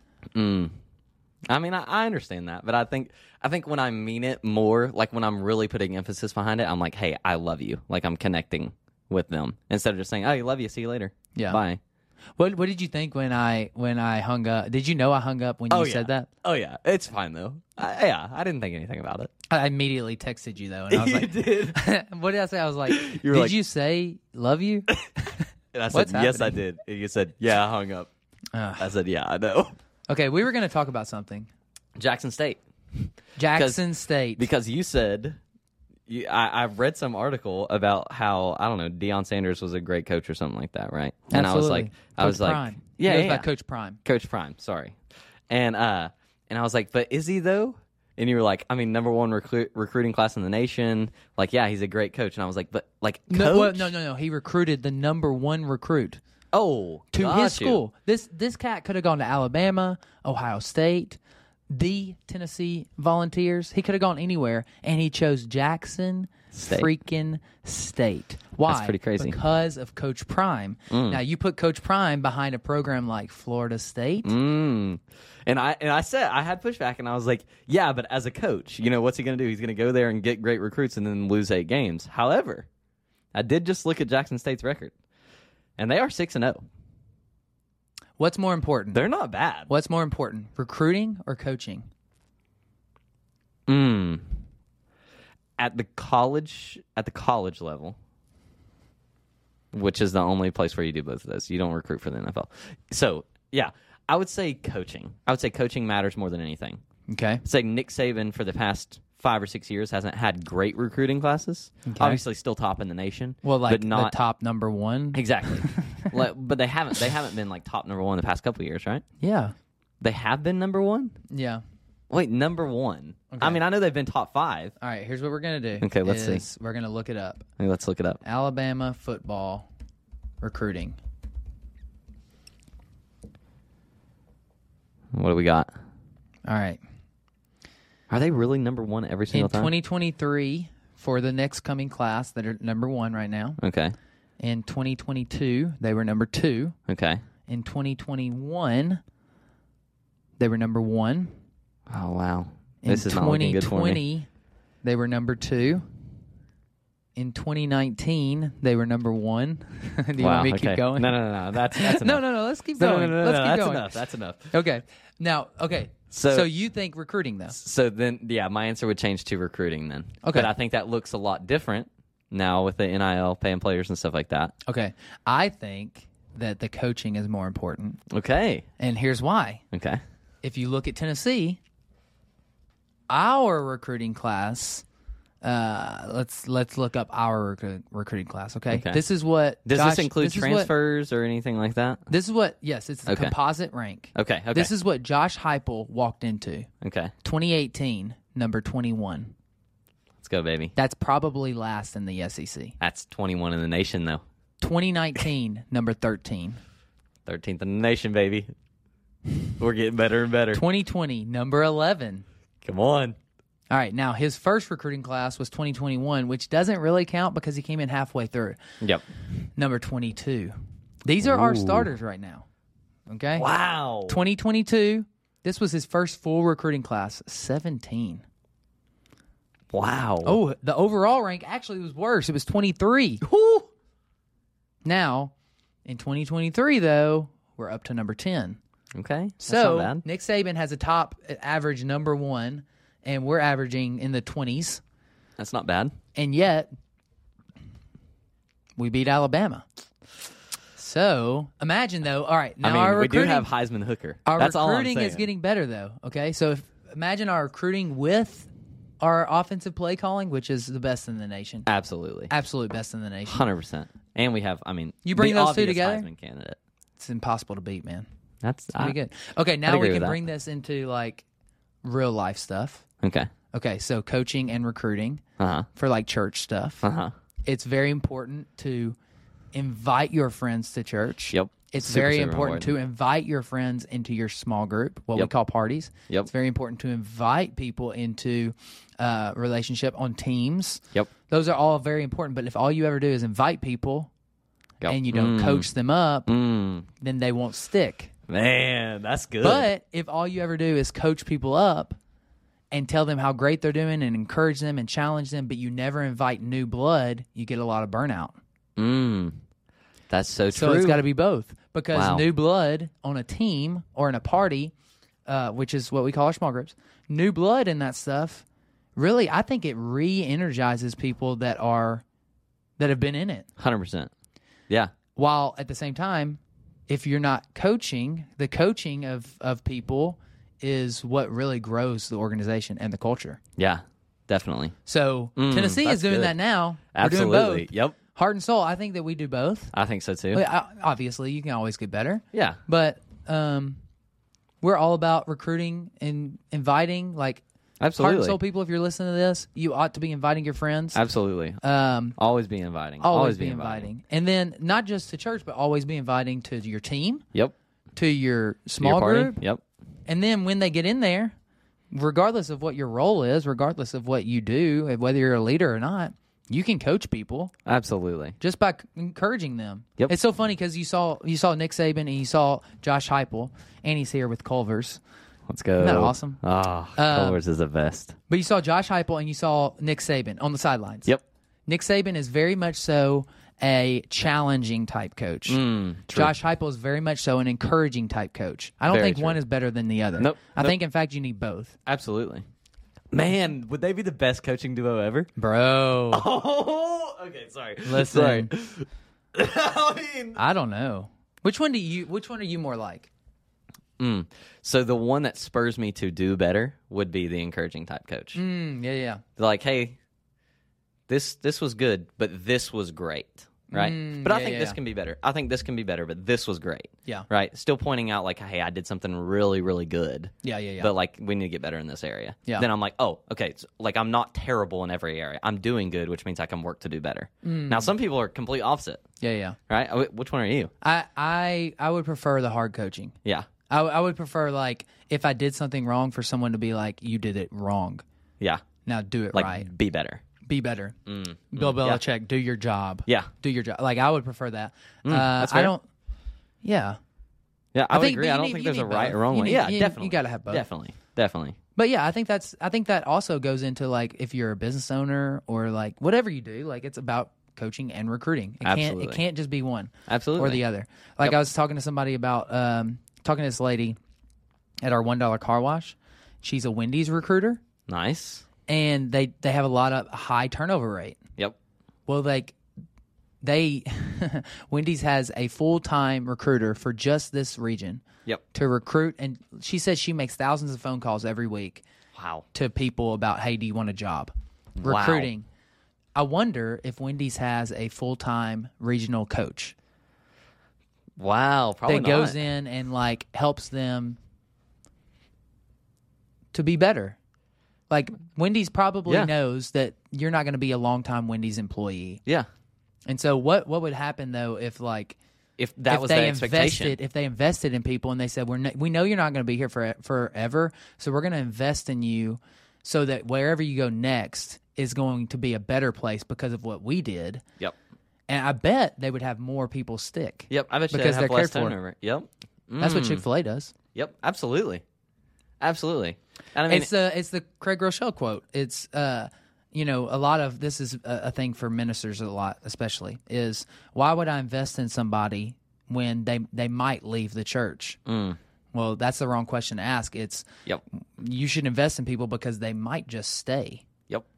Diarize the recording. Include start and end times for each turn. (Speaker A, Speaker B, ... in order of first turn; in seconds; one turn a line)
Speaker A: 0.3-0.7
Speaker A: 1.5-11.8
Speaker B: 11.3-11.6
Speaker B: 12.4-16.3
Speaker A: 15.7-19.3
Speaker B: 19.5-26.6
Speaker A: 20.9-21.8
Speaker A: 22.9-23.6
Speaker A: 25.7-28.1
Speaker B: 28.5-28.9
Speaker A: 28.8-29.7
Speaker B: 30.1-31.5
Speaker A: 32.0-32.6
Speaker B: 33.4-34.5
Speaker A: 33.5-33.8
Speaker A: 34.4-35.4
Speaker A: 36.1-43.5
Speaker B: 41.3-44.0
Speaker A: 44.0-45.0
Speaker A: 45.5-53.9
Speaker B: 53.3-56.2
Speaker A: 56.5-57.8
Speaker B: 57.1-61.2
Speaker B: 61.7-74.3
Speaker A: 66.5-66.9
Speaker A: 68.7-69.4
Speaker A: 70.9-71.2
Speaker A: 74.2-82.7
Speaker A: 83.3-84.9
Speaker A: 85.8-86.6
Speaker B: 88.2-89.0
Speaker A: 88.9-89.7
Speaker B: 89.7-91.9
Speaker A: 93.7-94.3
Speaker A: 95.6-98.0
Speaker A: 99.7-106.8
Speaker B: 107.1-107.4
Speaker A: 107.4-114.2
Speaker B: 111.9-112.2
Speaker B: 113.4-116.1
Speaker A: 115.1-119.0
Speaker B: 119.2-119.5
Speaker A: 120.0-121.2
Speaker B: 121.3-121.6
Speaker A: 122.1-124.7
Speaker B: 123.3-123.6
Speaker B: 124.8-127.5
Speaker A: 125.8-126.5
Speaker A: 127.6-128.2
Speaker B: 128.2-129.7
Speaker B: 130.4-131.0
Speaker A: 135.1-135.7
Speaker B: 136.5-136.8
Speaker A: 138.1-139.7
Speaker B: 139.3-143.6
Speaker A: 143.6-144.0
Speaker B: 144.4-146.8
Speaker A: 146.9-147.2
Speaker B: 147.5-149.0
Speaker B: 150.4-151.3
Speaker A: 151.9-154.0
Speaker B: 152.8-154.3
Speaker B: 154.8-155.9
Speaker B: 157.2-167.6
Speaker A: 160.2-164.5
Speaker A: 166.1-166.5
Speaker A: 167.5-174.5
Speaker B: 170.2-170.5
Speaker B: 174.7-178.0
Speaker A: 178.1-178.7
Speaker B: 178.8-179.6
Speaker A: 179.7-180.0
Speaker B: 180.4-181.6
Speaker B: 183.1-184.8
Speaker B: 185.4-190.7
Speaker A: 188.7-189.0
Speaker A: 189.7-192.0
Speaker B: 192.1-196.7
Speaker A: 193.1-193.3
Speaker A: 194.2-194.7
Speaker A: 196.8-197.1
Speaker B: 197.2-199.3
Speaker A: 200.2-200.7
Speaker B: 200.8-202.8
Speaker A: 202.8-204.2
Speaker B: 204.6-206.6
Speaker A: 207.3-208.5
Speaker A: 209.6-210.6
Speaker B: 210.5-212.2
Speaker A: 212.6-213.2
Speaker B: 213.7-218.6
Speaker B: 219.6-222.5
Speaker A: 221.2-221.9
Speaker B: 223.1-223.5
Speaker A: 223.3-224.2
Speaker B: 224.1-228.2
Speaker A: 229.7-230.4
Speaker B: 230.2-233.2
Speaker A: 233.2-233.7
Speaker B: 234.8-235.3
Speaker B: 235.8-238.6
Speaker A: 238.9-240.0
Speaker B: 239.4-244.8
Speaker A: 245.4-245.9
Speaker B: 246.2-246.7
Speaker B: 248.8-249.7
Speaker B: 250.8-253.5
Speaker A: 252.6-255.3
Speaker B: 254.3-258.5
Speaker B: 259.0-261.7
Speaker A: 261.7-262.3
Speaker B: 262.3-263.4
Speaker A: 263.3-266.6
Speaker B: 265.1-266.1
Speaker B: 267.0-268.1
Speaker A: 268.4-269.0
Speaker B: 268.8-271.2
Speaker A: 269.6-270.2
Speaker B: 271.8-272.8
Speaker A: 273.0-273.3
Speaker B: 273.5-275.2
Speaker A: 275.4-275.7
Speaker B: 275.7-276.9
Speaker A: 276.8-277.1
Speaker B: 277.4-279.0
Speaker B: 279.5-294.1
Speaker A: 281.3-282.8
Speaker A: 294.8-295.7
Speaker B: 294.9-296.3
Speaker A: 296.3-296.9
Speaker B: 297.0-298.1
Speaker A: 298.3-299.7
Speaker B: 299.4-302.0
Speaker B: 302.7-308.4
Speaker A: 308.8-309.4
Speaker A: 310.1-311.0
Speaker B: 310.5-314.7
Speaker A: 311.9-312.2
Speaker B: 315.3-318.4
Speaker B: 319.0-322.0
Speaker B: 322.8-323.5
Speaker A: 323.6-324.1
Speaker B: 325.1-333.4
Speaker A: 333.6-334.8
Speaker B: 334.9-339.7
Speaker A: 335.4-336.4
Speaker A: 336.9-338.0
Speaker A: 339.7-340.4
Speaker B: 340.3-343.8
Speaker A: 342.3-342.6
Speaker B: 344.6-347.4
Speaker A: 347.8-348.4
Speaker B: 348.0-351.0
Speaker A: 350.9-351.6
Speaker B: 351.6-352.2
Speaker A: 352.2-353.9
Speaker B: 353.0-357.2
Speaker B: 357.9-359.4
Speaker A: 358.8-359.6
Speaker B: 360.1-361.4
Speaker B: 361.9-367.5
Speaker A: 367.7-368.4
Speaker B: 368.4-375.0
Speaker A: 375.5-378.2
Speaker B: 375.8-376.4
Speaker B: 377.0-377.4
Speaker B: 378.3-381.1
Speaker B: 381.7-391.8
Speaker A: 385.5-386.3
Speaker A: 388.9-389.4
Speaker A: 390.2-390.8
Speaker A: 391.9-392.5
Speaker A: 393.1-395.3
Speaker B: 395.4-396.3
Speaker A: 396.1-400.4
Speaker B: 397.9-398.5
Speaker B: 400.4-403.1
Speaker A: 404.0-408.4
Speaker B: 408.3-409.2
Speaker A: 409.4-410.0
Speaker A: 411.1-429.0
Speaker B: 413.7-414.8
Speaker B: 420.4-420.9
Speaker B: 427.4-427.9
Speaker B: 429.2-429.6
Speaker A: 429.7-430.7
Speaker B: 430.8-433.1
Speaker B: 433.7-438.0
Speaker B: 438.9-439.7
Speaker A: 439.3-440.2
Speaker B: 440.4-441.0
Speaker A: 441.1-442.0
Speaker B: 441.5-445.9
Speaker A: 445.1-445.7
Speaker B: 446.6-447.0
Speaker A: 447.8-451.6
Speaker B: 447.9-450.6
Speaker B: 451.8-464.0
Speaker A: 458.6-459.2
Speaker A: 460.1-460.6
Speaker B: 464.8-467.6
Speaker A: 467.9-468.5
Speaker B: 468.7-471.2
Speaker B: 472.1-472.6
Speaker B: 473.4-478.0
Speaker B: 478.5-481.8
Speaker A: 482.1-482.4
Speaker B: 482.5-484.3
Speaker A: 484.8-485.3
Speaker B: 484.8-485.5
Speaker B: 486.1-489.8
Speaker A: 491.2-492.4
Speaker B: 491.9-494.2
Speaker B: 496.5-497.2
Speaker B: 497.9-502.2
Speaker A: 499.1-499.3
Speaker B: 503.1-505.2
Speaker A: 505.6-507.0
Speaker B: 505.9-517.4
Speaker B: 518.3-521.8
Speaker A: 520.5-523.2
Speaker B: 522.8-523.7
Speaker A: 524.0-524.8
Speaker A: 525.6-526.9
Speaker B: 526.7-538.0
Speaker A: 538.1-538.4
Speaker B: 538.7-540.5
Speaker B: 541.2-543.9